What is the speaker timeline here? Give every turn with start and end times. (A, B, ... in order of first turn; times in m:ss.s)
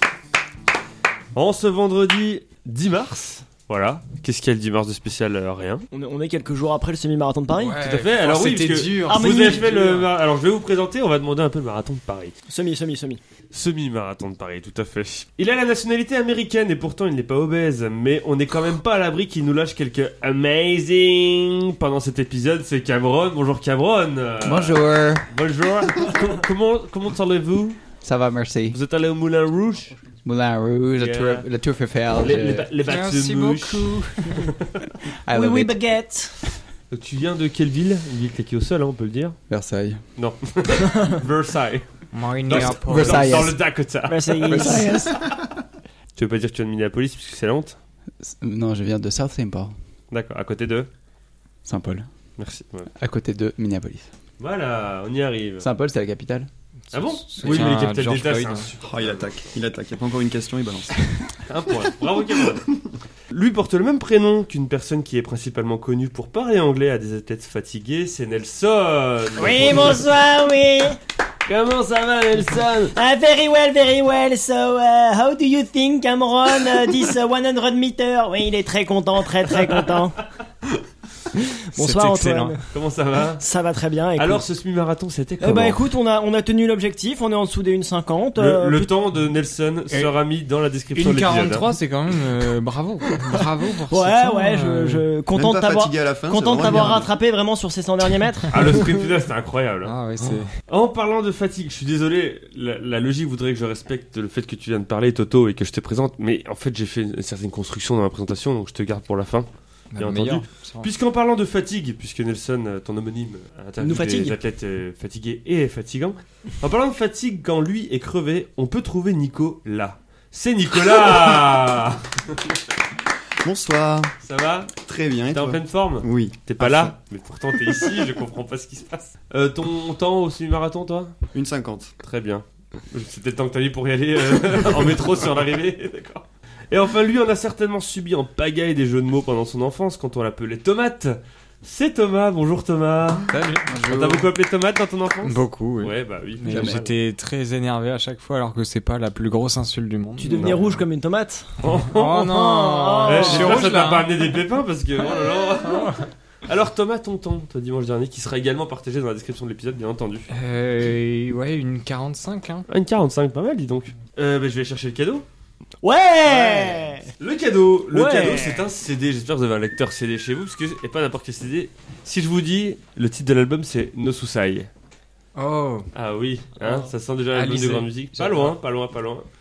0:01.4-0:05.9 A
0:05.9-0:07.8 B
0:07.5-0:10.1 C
0:07.8-0:12.4 A
0:09.1-0:09.7 B
0:12.5-0:13.2 B
0:13.5-0:27.8 A
0:24.4-0:25.3 D
0:28.0-0:28.8 D
0:28.7-0:30.0 A
0:30.2-0:32.7 D
0:31.0-0:31.5 A
0:32.1-0:34.9 A
0:32.8-0:34.5 C
0:35.2-0:35.8 D
0:35.3-0:36.5 B
0:36.9-0:39.4 A
0:39.5-0:40.0 D
0:40.2-0:45.0 A
0:42.1-0:43.5 C
0:42.5-0:43.6 D
0:44.1-0:45.2 B
0:44.5-0:45.2 D
0:46.2-0:47.8 A
0:48.2-0:49.8 D
0:50.1-0:50.9 A
0:51.6-0:52.1 D
0:52.4-0:52.9 A
0:52.9-0:54.1 D
0:54.4-0:55.7 A
0:55.6-0:56.5 D
0:56.9-0:58.7 C
0:56.9-0:59.5 A
0:58.8-1:01.4 E
1:01.5-1:02.7 A
1:03.3-1:10.1 A
1:09.4-1:11.0 B
1:11.5-1:13.0 A
1:12.9-1:20.2 B
1:21.3-1:22.6 B
1:21.8-1:22.6 C
1:22.7-1:23.4 A
1:23.4-1:24.4 B
1:24.2-1:25.8 A
1:25.4-1:28.9 B
1:28.4-1:31.7 A
1:31.0-1:35.1 C
1:33.9-1:39.0 B
1:35.3-1:37.1 E
1:38.5-1:40.0 A
1:39.8-1:40.6 C
1:40.7-2:02.4 A
1:49.9-1:50.9 C
1:53.8-1:54.4 B
2:03.4-2:04.1 E
2:04.2-2:04.8 A
2:04.7-2:06.9 E
2:05.3-2:11.1 A
2:11.3-2:11.9 E
2:12.0-2:23.3 A
2:23.3-2:24.3 D
2:23.3-2:23.7 C
2:23.8-2:26.9 A
2:25.2-2:30.8 C
2:26.5-2:26.9 D
2:30.2-2:31.6 B
2:31.6-2:32.3 A
2:31.6-2:34.2 C
2:32.2-2:33.6 B
2:33.0-2:40.3 A
2:35.7-2:35.9 C
2:40.3-2:42.7 C
2:42.7-2:45.2 A
2:45.8-2:47.1 B
2:46.3-2:54.7 A
2:47.9-2:48.6 B
2:55.4-2:55.9 C
2:55.9-2:59.3 A
2:57.3-2:58.5 C